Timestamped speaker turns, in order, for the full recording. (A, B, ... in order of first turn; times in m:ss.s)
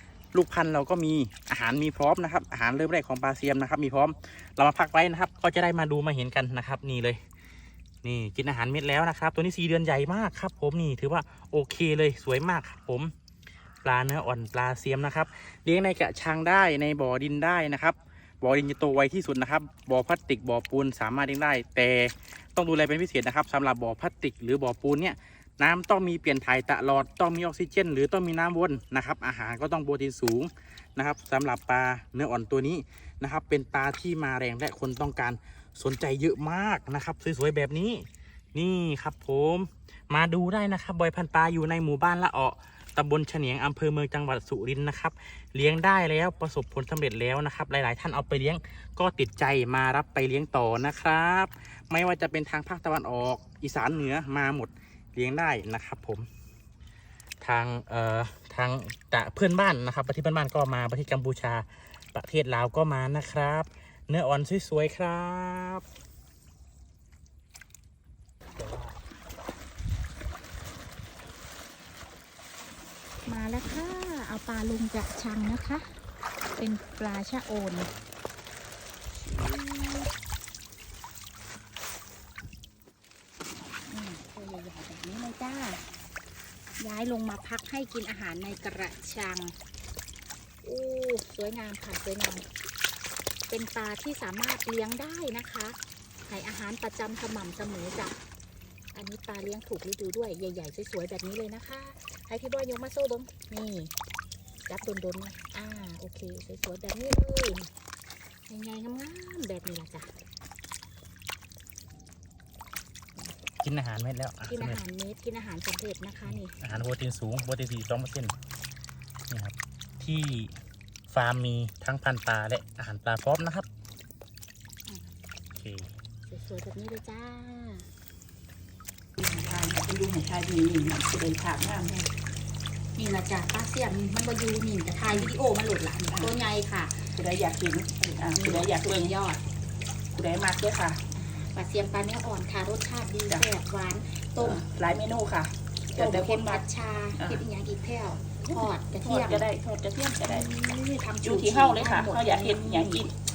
0:00.3-0:07.2 A
0:08.0-0:13.1 A
0:13.8-0:56.3 A
0:57.4-1:05.8 A
1:08.6-1:08.9 A
1:13.2-1:15.9 B
1:16.6-1:17.9 B
1:19.1-1:20.1 B
1:23.9-1:25.8 B
1:26.8-1:29.5 B
1:30.6-1:32.4 B
1:33.5-1:35.8 B
1:36.3-1:38.2 B
1:38.9-1:43.9 B
1:44.7-1:47.7 B
1:48.5-1:50.1 B
1:53.6-1:54.8 A
1:54.5-1:56.6 B
1:56.2-1:58.3 A
1:59.3-2:00.5 A
2:01.1-2:03.6 A
2:05.5-2:05.9 A
2:06.3-2:07.9 B
2:09.2-2:11.9 C
2:13.0-2:17.2 B
2:17.1-2:19.1 C
2:18.3-2:19.4 B
2:20.1-2:21.0 C
2:21.1-2:24.6 B
2:24.4-2:26.6 C
2:25.9-2:29.4 B
2:28.4-2:30.5 C
2:30.2-2:33.0 B
2:31.2-2:33.1 C